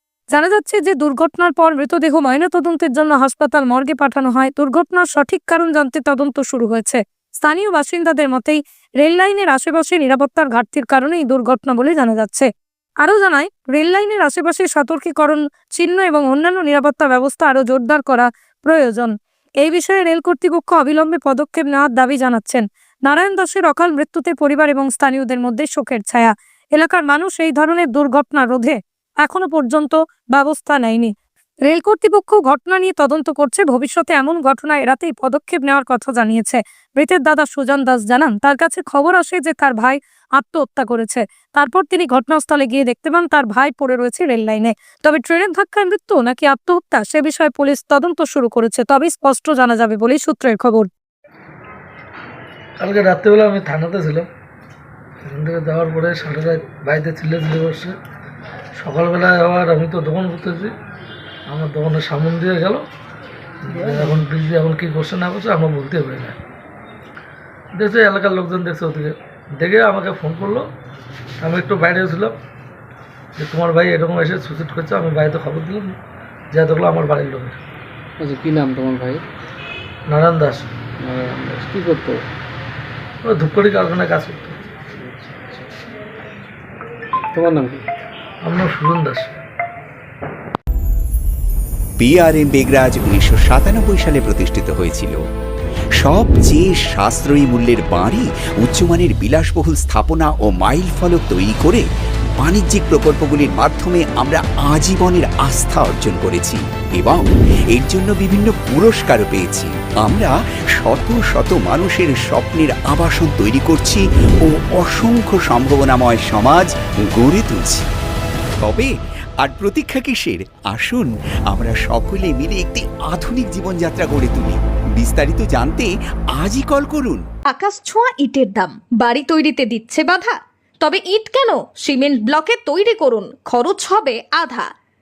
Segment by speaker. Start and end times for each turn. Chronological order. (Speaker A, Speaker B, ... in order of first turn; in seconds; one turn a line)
Speaker A: 0.3-12.5
Speaker A: 13.0-31.1
Speaker A: 31.6-50.9
Speaker B: 52.8-54.3
Speaker B: 55.2-57.9
Speaker B: 58.8-60.7
Speaker B: 61.5-62.8
Speaker B: 63.7-66.4
Speaker B: 67.7-70.7
Speaker B: 71.4-72.3
Speaker B: 73.4-75.9
Speaker B: 76.5-77.6
Speaker C: 78.2-79.2
Speaker B: 80.1-80.7
Speaker C: 81.0-82.2
Speaker B: 83.2-84.6
Speaker C: 85.0-85.7
Speaker C: 87.3-87.8
Speaker B: 88.4-89.3
Speaker D: 92.0-95.2
Speaker D: 96.0-101.8
Speaker D: 102.4-117.9
Speaker D: 118.6-127.2
Speaker E: 127.5-134.7